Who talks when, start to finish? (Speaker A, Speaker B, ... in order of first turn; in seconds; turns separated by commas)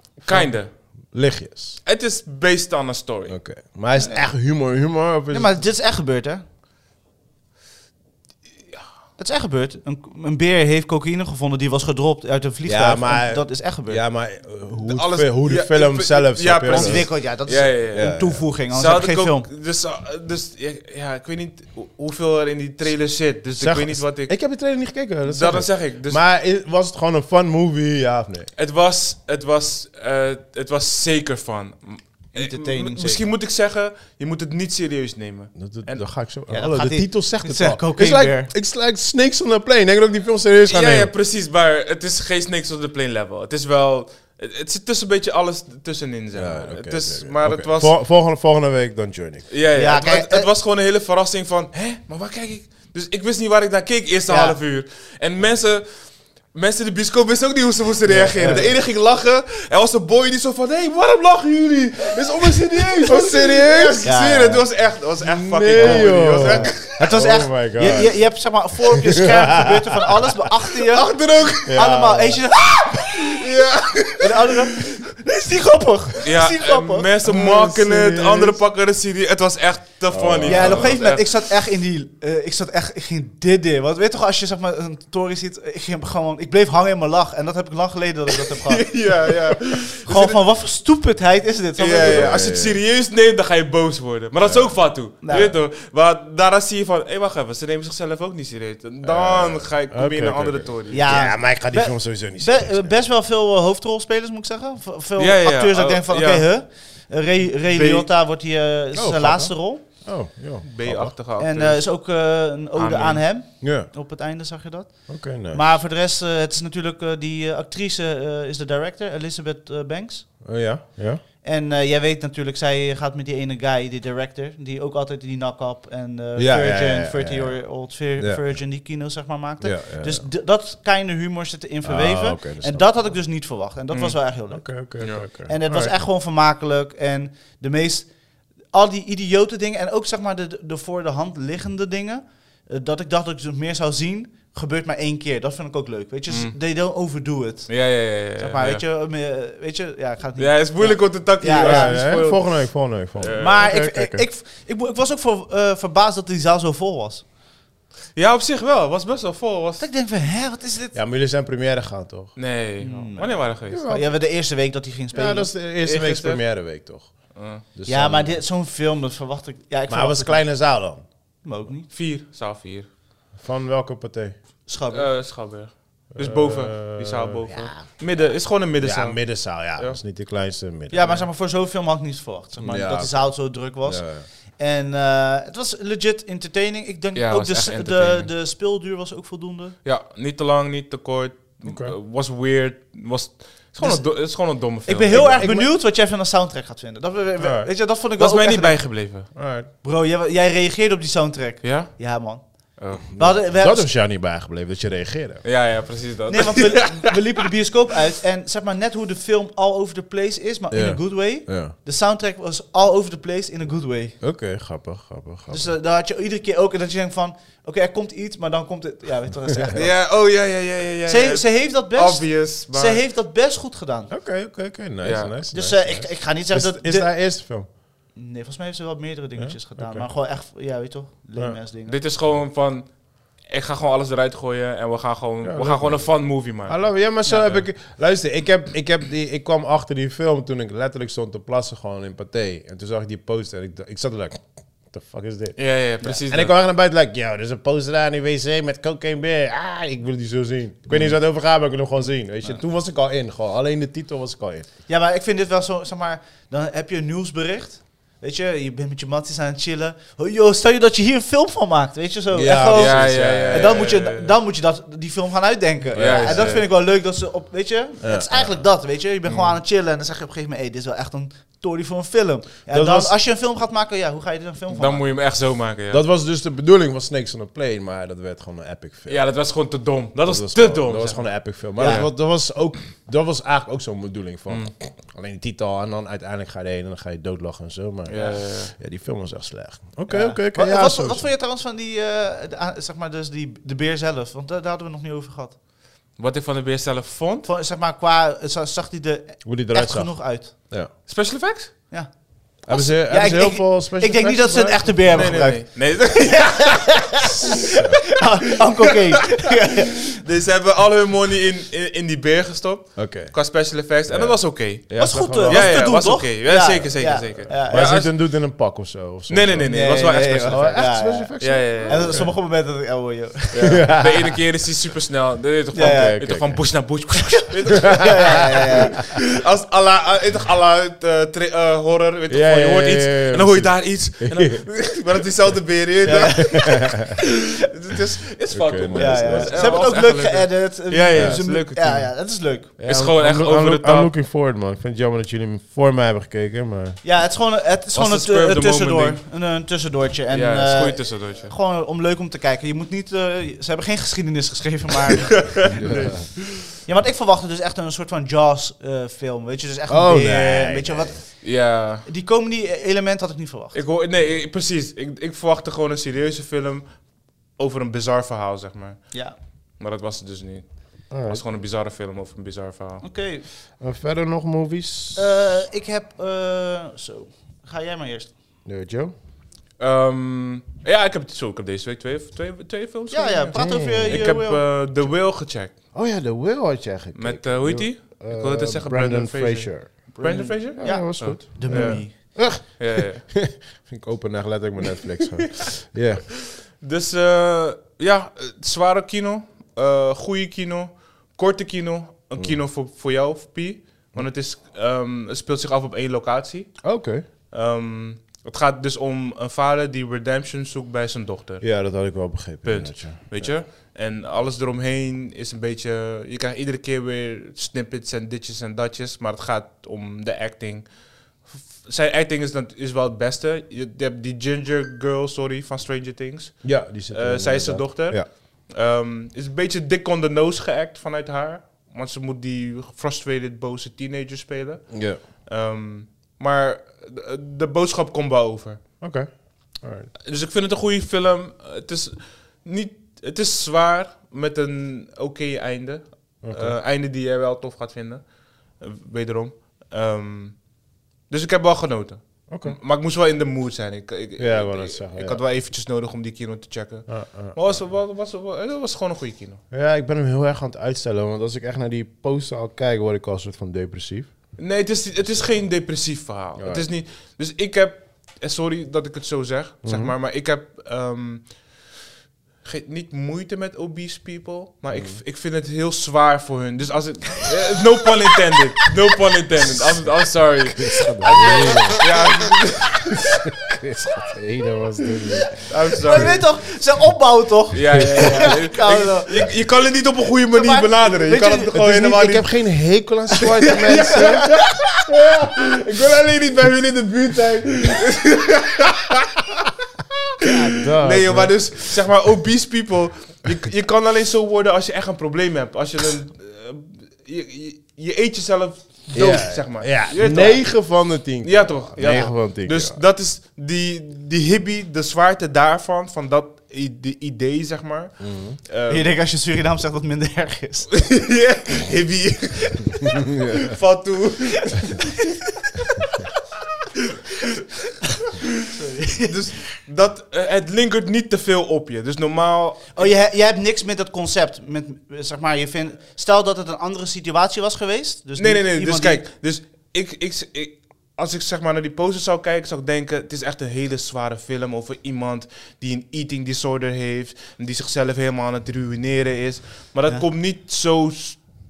Speaker A: 0.2-0.7, Speaker B: 0.3-1.8, Speaker A: 1.8-3.4, Speaker B: 3.3-5.6, Speaker C: 4.0-4.2, Speaker C: 5.3-6.4, Speaker C: 9.2-14.0, Speaker B: 12.7-17.2, Speaker A: 14.8-24.6, Speaker C: 16.6-19.5, Speaker B: 17.9-18.4, Speaker B: 23.6-28.5, Speaker A: 25.2-26.2, Speaker A: 28.6-36.1, Speaker C: 32.3-33.3, Speaker B: 35.5-41.1, Speaker C: 36.5-38.5, Speaker A: 40.7-47.9, Speaker B: 46.3-49.5, Speaker A: 49.5-67.0, Speaker C: 49.8-50.5, Speaker C: 54.3-54.6, Speaker B: 58.0-58.8, Speaker C: 58.4-58.7, Speaker B: 63.0-64.1, Speaker C: 64.0-64.6, Speaker B: 65.2-68.3, Speaker C: 65.7-73.3, Speaker B: 69.2-69.7, Speaker A: 70.9-71.8, Speaker B: 71.6-72.4, Speaker A: 73.3-74.7, Speaker C: 74.2-77.1, Speaker A: 76.2-81.4, Speaker B: 77.2-78.6, Speaker B: 80.1-81.0, Speaker C: 80.4-89.3, Speaker A: 88.4-90.4, Speaker C: 90.0-92.4, Speaker A: 91.8-101.3, Speaker B: 92.0-92.8, Speaker B: 94.4-94.8, Speaker C: 95.2-95.6, Speaker B: 99.0-103.0, Speaker C: 100.9-109.8, Speaker A: 105.2-106.5, Speaker A: 107.7-108.1, Speaker B: 108.9-111.1, Speaker A: 110.6-111.9, Speaker C: 111.4-120.4, Speaker A: 112.7-113.3, Speaker B: 113.6-113.9, Speaker B: 115.1-115.8, Speaker B: 120.4-121.2, Speaker C: 121.4-138.1, Speaker B: 126.3-128.6, Speaker B: 129.6-130.3, Speaker B: 131.8-133.1, Speaker A: 133.9-134.2, Speaker B: 134.5-135.9, Speaker A: 135.0-135.3, Speaker C: 138.7-151.9, Speaker A: 146.3-146.5, Speaker A: 147.7-148.8, Speaker A: 150.4-153.7, Speaker B: 151.6-154.2, Speaker C: 153.4-157.2, Speaker A: 158.2-159.8, Speaker C: 159.8-161.0, Speaker B: 160.9-162.3, Speaker A: 162.3-163.9, Speaker C: 162.8-165.5, Speaker B: 163.7-164.2, Speaker B: 165.1-168.4, Speaker A: 165.8-166.6, Speaker A: 167.3-167.6, Speaker C: 167.8-170.5, Speaker B: 169.9-171.0, Speaker C: 171.4-171.9, Speaker A: 171.9-172.9, Speaker B: 173.4-174.4, Speaker C: 174.7-175.1, Speaker A: 174.9-180.0, Speaker B: 176.1-181.2, Speaker C: 180.9-189.8, Speaker B: 182.6-184.3, Speaker A: 187.1-188.3, Speaker A: 189.8-195.3, Speaker B: 191.6-191.9, Speaker C: 193.8-203.9, Speaker B: 195.1-195.7, Speaker B: 197.4-197.7, Speaker A: 198.1-199.3, Speaker B: 199.3-199.7, Speaker A: 201.6-203.1, Speaker B: 203.1-205.4, Speaker A: 205.4-207.1, Speaker C: 206.3-214.2, Speaker B: 210.7-211.7, Speaker B: 214.2-215.7, Speaker C: 215.5-220.0, Speaker B: 219.5-219.8, Speaker A: 219.7-223.0, Speaker C: 221.1-224.1, Speaker B: 224.1-227.7, Speaker A: 225.0-225.3, Speaker C: 225.5-227.3, Speaker C: 228.1-232.0, Speaker B: 229.4-230.0, Speaker A: 231.8-236.9, Speaker B: 235.4-254.7, Speaker C: 237.2-237.5, Speaker A: 245.6-246.5, Speaker C: 254.9-275.1, Speaker B: 262.3-263.9, Speaker A: 262.7-264.3, Speaker B: 265.9-266.6, Speaker A: 265.9-266.7, Speaker B: 268.0-268.7, Speaker A: 269.3-269.6, Speaker B: 272.7-273.1, Speaker A: 274.7-276.0, Speaker B: 275.9-279.5, Speaker A: 279.1-282.1, Speaker B: 280.2-291.3, Speaker C: 281.8-282.1, Speaker A: 288.1-288.7, Speaker C: 288.1-288.4, Speaker C: 290.1-295.6, Speaker A: 296.1-297.5, Speaker C: 297.4-300.5, Speaker B: 299.4-300.9, Speaker A: 301.1-301.9, Speaker C: 301.9-310.2, Speaker B: 302.6-305.6, Speaker A: 305.1-307.1, Speaker B: 307.7-308.0, Speaker A: 310.1-318.1, Speaker B: 312.9-315.9, Speaker C: 315.0-317.9, Speaker B: 317.6-322.4, Speaker A: 319.3-322.3, Speaker C: 319.6-323.8, Speaker A: 323.5-342.1, Speaker B: 323.6-324.4, Speaker C: 325.7-326.2, Speaker B: 325.7-326.7, Speaker C: 327.4-329.1, Speaker B: 327.9-328.6, Speaker B: 332.3-334.6, Speaker C: 336.0-337.0, Speaker B: 338.5-340.0, Speaker C: 338.9-342.7, Speaker B: 341.1-341.4, Speaker A: 342.8-344.1, Speaker B: 342.8-347.0, Speaker C: 347.0-356.0, Speaker A: 347.9-349.2, Speaker A: 350.3-351.5, Speaker A: 355.4-356.3, Speaker B: 355.7-356.3, Speaker C: 356.8-363.8, Speaker B: 359.9-361.2, Speaker A: 361.4-362.1, Speaker A: 363.7-373.0, Speaker C: 369.1-369.4, Speaker B: 371.1-371.4, Speaker C: 373.0-373.4, Speaker B: 373.8-375.4, Speaker C: 375.1-378.3, Speaker B: 378.6-379.1, Speaker A: 379.8-385.7, Speaker C: 383.1-385.0, Speaker B: 383.5-384.5, Speaker B: 385.9-390.1, Speaker A: 387.1-393.2, Speaker C: 390.1-392.1, Speaker B: 390.7-396.3, Speaker A: 396.8-406.9, Speaker B: 406.8-407.2, Speaker A: 407.5-438.8, Speaker B: 411.6-413.6, Speaker B: 426.6-428.3, Speaker B: 434.9-435.2, Speaker B: 439.0-440.1, Speaker A: 440.3-459.6, Speaker B: 446.4-446.8, Speaker B: 452.5-452.8, Speaker B: 454.4-455.4, Speaker B: 457.1-457.8, Speaker B: 459.7-464.3, Speaker A: 464.6-471.9, Speaker B: 466.6-466.9, Speaker B: 469.8-470.1, Speaker A: 472.6-483.2, Speaker B: 474.9-475.2, Speaker B: 480.0-482.1, Speaker C: 481.2-482.2, Speaker B: 483.4-486.4, Speaker A: 485.7-486.5, Speaker C: 485.7-489.5, Speaker A: 487.7-492.6, Speaker B: 487.9-488.5, Speaker C: 490.5-491.8, Speaker B: 491.7-494.5, Speaker A: 493.8-499.6, Speaker C: 494.1-494.6, Speaker B: 500.4-501.8, Speaker A: 500.4-519.2, Speaker B: 509.1-513.0, Speaker B: 518.2-518.6, Speaker C: 518.9-521.0, Speaker A: 520.9-525.1, Speaker B: 523.4-523.7, Speaker C: 528.6-529.8, Speaker A: 529.2-533.2, Speaker C: 532.9-539.2, Speaker A: 538.4-551.5